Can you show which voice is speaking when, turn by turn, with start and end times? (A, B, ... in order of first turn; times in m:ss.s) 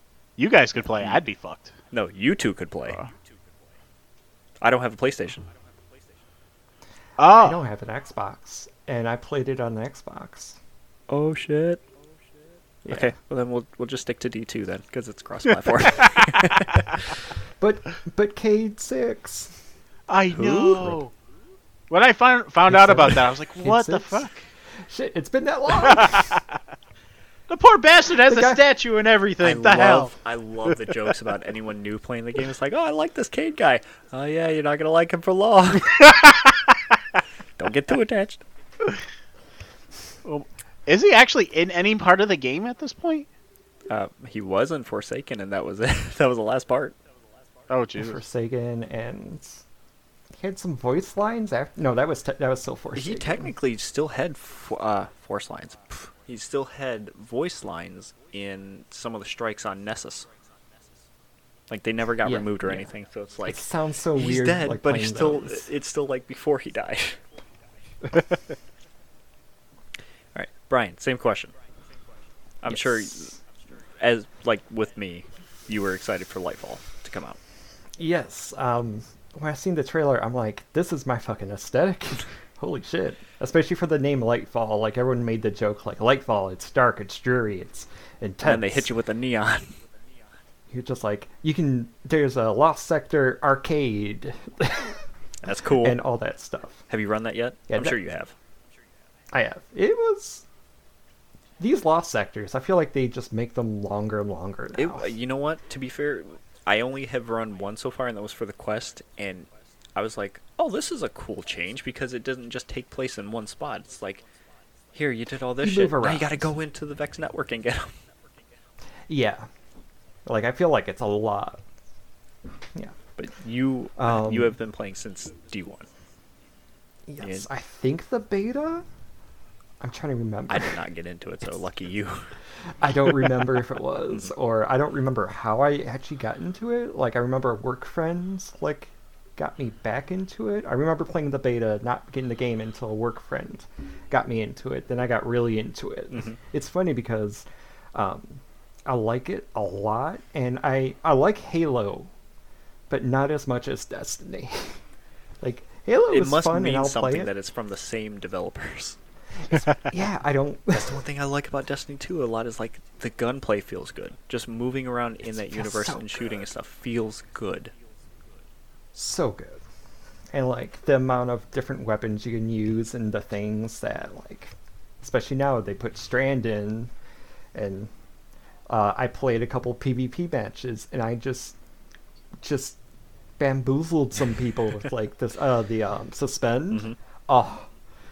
0:00.4-0:01.7 A
0:01.9-0:03.0 B
0:04.6-0:05.5 B
0:07.2-0:07.6 A
0:07.3-0:10.6 C
0:11.1-0:11.8 B
0:12.8-0:13.1 C
0:12.9-0:17.1 B
0:17.6-0:19.6 C
0:20.1-0:21.1 A
0:20.3-0:21.0 B
0:21.9-0:24.3 A
0:22.7-0:24.3 C
0:24.8-0:26.4 C
0:25.9-0:26.4 A
0:27.5-0:30.1 A
0:28.3-0:28.6 C
0:29.4-0:36.1 B
0:37.6-0:38.4 B
0:40.2-0:43.3 A
0:43.9-0:47.0 B
0:47.7-0:48.2 A
0:48.0-0:49.6 C
0:50.3-0:53.5 C
0:52.9-1:00.3 B
1:01.7-1:07.2 B
1:02.2-1:02.9 C
1:03.4-1:05.7 C
1:10.3-1:11.5 B
1:12.6-1:13.4 B
1:14.0-1:17.4 B
1:18.0-1:28.9 C
1:28.4-1:29.8 B
1:30.7-1:35.0 C
1:35.4-1:36.0 B
1:35.8-1:36.8 C
1:36.9-1:38.3 B
1:37.7-1:38.0 C
1:39.3-1:40.4 C
1:41.6-1:45.1 C
1:44.8-1:54.2 B
1:54.9-1:57.9 B
1:55.6-1:56.5 C
1:59.1-1:59.5 C
2:00.2-2:01.6 C
2:03.2-2:05.9 B
2:04.0-2:04.6 C
2:07.1-2:08.8 C
2:07.2-2:07.4 B
2:09.8-2:10.8 C
2:10.5-2:12.3 B
2:12.8-2:32.1 C
2:32.9-2:34.8 C
2:35.4-2:37.3 C
2:36.1-2:39.0 B
2:39.6-2:41.0 C
2:40.7-2:47.7 B
2:45.5-2:46.4 C
2:48.9-2:49.6 C
2:50.3-2:56.9 C
2:57.5-2:57.9 C
2:58.7-3:01.6 C
3:02.4-3:02.8 C
3:03.4-3:07.7 C
3:06.7-3:07.0 B